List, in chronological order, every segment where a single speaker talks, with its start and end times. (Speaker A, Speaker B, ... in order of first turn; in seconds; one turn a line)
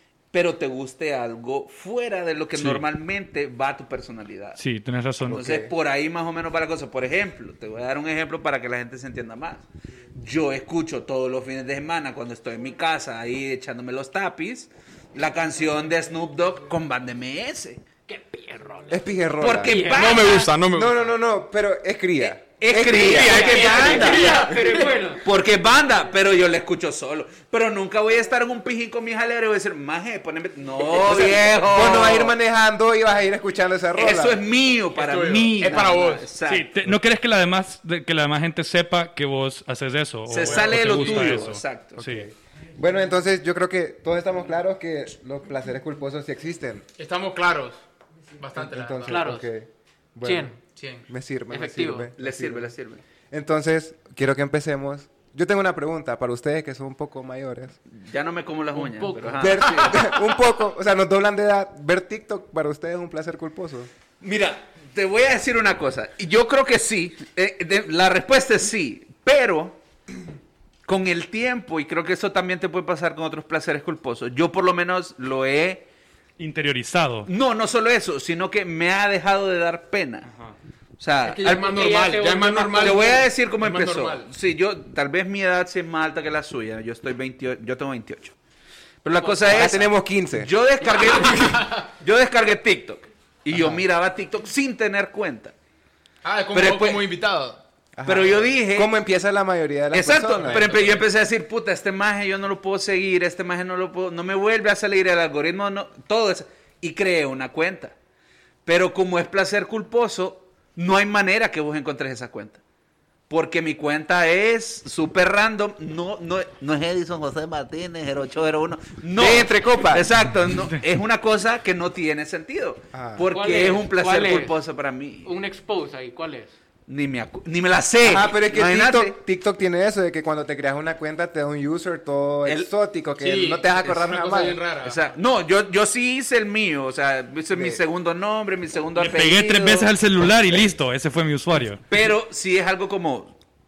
Speaker A: 0.3-4.6
Speaker B: 2.5-2.8
Speaker B: 4.6-5.4
Speaker C: 5.3-5.7
Speaker A: 5.3-17.8
Speaker D: 18.1-19.0
Speaker C: 18.9-19.8
Speaker A: 19.4-20.6
Speaker D: 19.6-20.3
Speaker E: 19.9-20.9
Speaker C: 20.7-24.4
Speaker A: 22.2-24.5
Speaker D: 23.0-25.2
Speaker E: 23.2-25.0
Speaker A: 25.2-32.4
Speaker C: 31.1-34.4
Speaker A: 33.9-36.9
Speaker E: 34.9-36.3
Speaker B: 36.4-42.3
Speaker A: 40.3-42.0
Speaker E: 40.3-41.5
Speaker C: 42.0-46.9
Speaker E: 47.0-47.8
Speaker E: 48.4-49.2
Speaker C: 48.5-50.5
Speaker D: 49.0-49.5
Speaker D: 50.2-50.6
Speaker E: 50.7-51.0
Speaker C: 51.1-52.7
Speaker D: 51.5-52.1
Speaker A: 52.2-53.0
Speaker C: 53.3-57.8
Speaker A: 57.9-60.1
Speaker D: 58.7-59.9
Speaker C: 59.4-63.9
Speaker A: 64.2-69.8
Speaker A: 70.8-75.8
Speaker B: 76.4-77.3
Speaker A: 77.2-80.3
Speaker A: 81.0-81.8
Speaker E: 81.2-84.3
Speaker D: 81.4-83.2
Speaker A: 82.8-88.3
Speaker A: 89.0-95.5
Speaker D: 89.2-89.4
Speaker C: 89.5-90.5
Speaker E: 91.2-91.8
Speaker C: 93.5-93.8
Speaker E: 96.2-97.6
Speaker A: 96.5-97.1
Speaker C: 98.0-100.7
Speaker A: 98.0-98.9
Speaker A: 99.9-107.9
Speaker E: 100.4-101.0
Speaker A: 108.7-112.6
Speaker A: 113.3-125.3
Speaker C: 119.1-120.1
Speaker B: 120.5-120.8
Speaker C: 122.9-123.3
Speaker D: 123.3-124.6
Speaker D: 125.2-126.5
Speaker A: 126.9-129.2
Speaker C: 128.0-134.6
Speaker A: 132.4-132.7
Speaker E: 133.2-135.0
Speaker A: 134.8-139.9
Speaker C: 137.5-137.8
Speaker B: 138.9-141.8
Speaker A: 141.9-143.3